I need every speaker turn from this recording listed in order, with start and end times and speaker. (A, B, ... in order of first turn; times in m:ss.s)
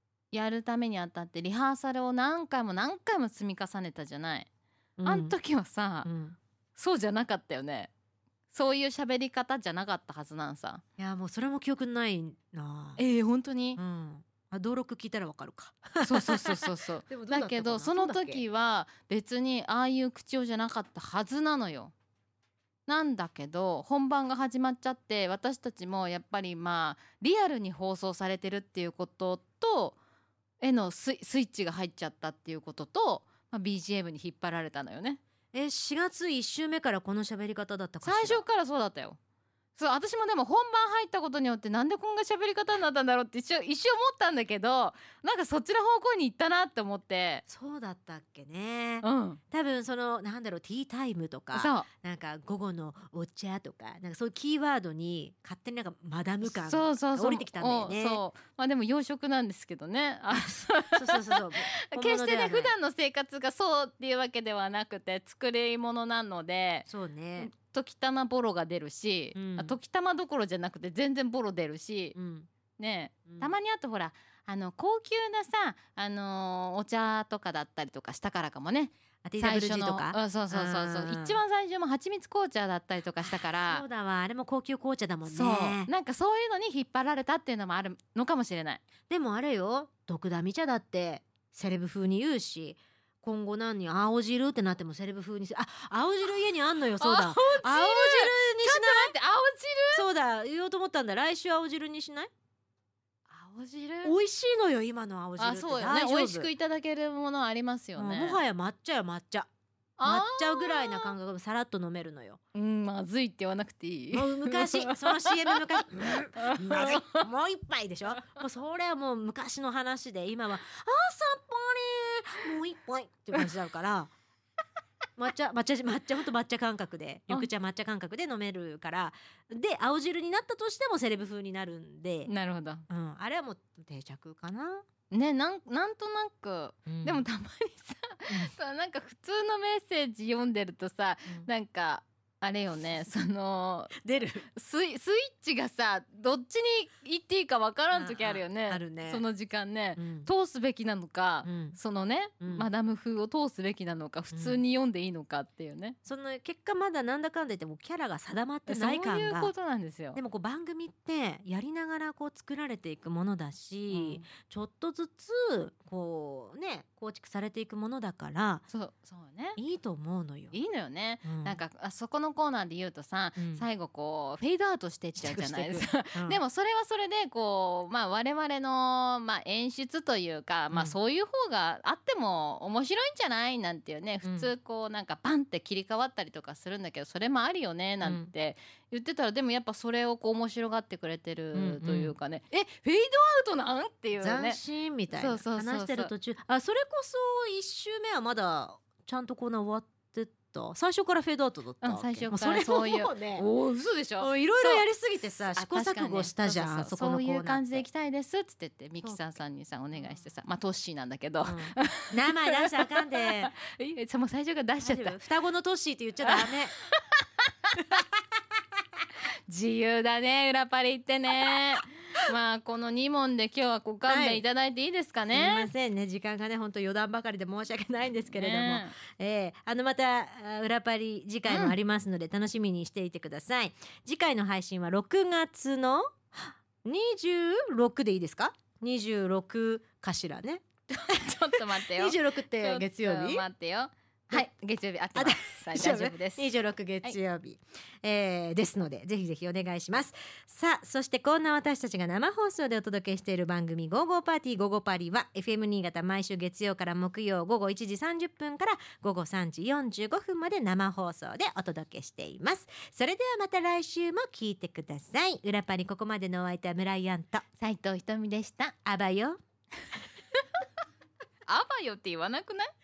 0:00.3-0:04.5 A
0:05.0-0:05.4 B
0:05.0-0:06.1 A
0:06.0-0:06.4 B
0:06.8-0:07.9 A
0:08.5-0:10.8 A
0:11.0-0:13.0 B
0:13.0-0:13.8 A
0:13.8-0:18.4 B
0:16.0-0:21.9 A
0:22.9-0:30.0 A
0:30.6-0:35.2 A
0:35.5-0:38.4 B
0:38.0-0:39.2 A
0:39.8-0:47.4 A
0:47.5-0:58.2 B
0:49.0-0:49.4 A
0:51.5-0:51.9 A
0:56.4-1:12.2 A
1:00.3-1:02.7 B
1:06.9-1:07.5 B
1:09.4-1:09.8 B
1:12.2-1:12.5 B
1:12.8-1:23.8 A
1:13.3-1:13.5 B
1:19.2-1:21.4 B
1:23.2-1:25.9 B
1:25.3-1:28.8 A
1:29.1-1:39.1 B
1:37.0-1:40.0 A
1:39.9-1:42.3 B
1:43.3-1:44.2 A
1:44.0-1:46.5 B
1:45.4-1:48.4 A
1:48.0-1:49.5 B
1:50.0-1:51.2 A
1:50.0-1:52.4 B
1:52.5-1:57.2 A
1:54.1-2:04.1 B
2:05.2-2:12.3 B
2:12.2-2:12.8 A
2:12.9-2:14.8 B
2:15.1-2:24.0 A
2:16.9-2:17.3 B
2:18.3-2:18.5 B
2:24.0-2:24.5 B
2:24.5-2:36.0 A
2:27.9-2:29.2 B
2:30.0-2:30.3 B
2:31.4-2:31.8 B
2:32.4-2:32.7 B
2:34.3-2:34.6 B
2:36.0-2:39.5 B
2:38.7-2:40.2 A
2:40.2-2:48.6 B
2:43.9-2:44.3 A
2:48.7-2:49.6 A
2:49.6-2:50.6 B
2:50.5-3:14.6 A
2:51.2-2:51.6 B
2:53.4-2:53.7 B
2:55.2-2:56.4 B
3:00.7-3:01.0 B
3:04.2-3:04.5 B
3:08.0-3:08.3 B
3:11.5-3:12.1 B
3:14.2-3:23.5 B
3:15.1-3:16.1 A
3:21.8-3:24.9 A
3:24.2-3:27.9 B
3:25.5-3:35.2 A
3:29.0-3:29.4 B
3:31.4-3:33.5 B
3:34.8-3:36.7 B
3:36.2-3:38.0 A
3:39.5-3:45.7 A
3:44.1-3:44.4 B
3:45.3-4:03.5 B
3:48.3-3:49.0 A
3:51.5-3:51.8 A
4:00.9-4:06.5 A
4:05.1-4:27.4 B
4:27.6-4:28.8 A
4:28.8-4:29.4 B
4:31.5-4:32.7 A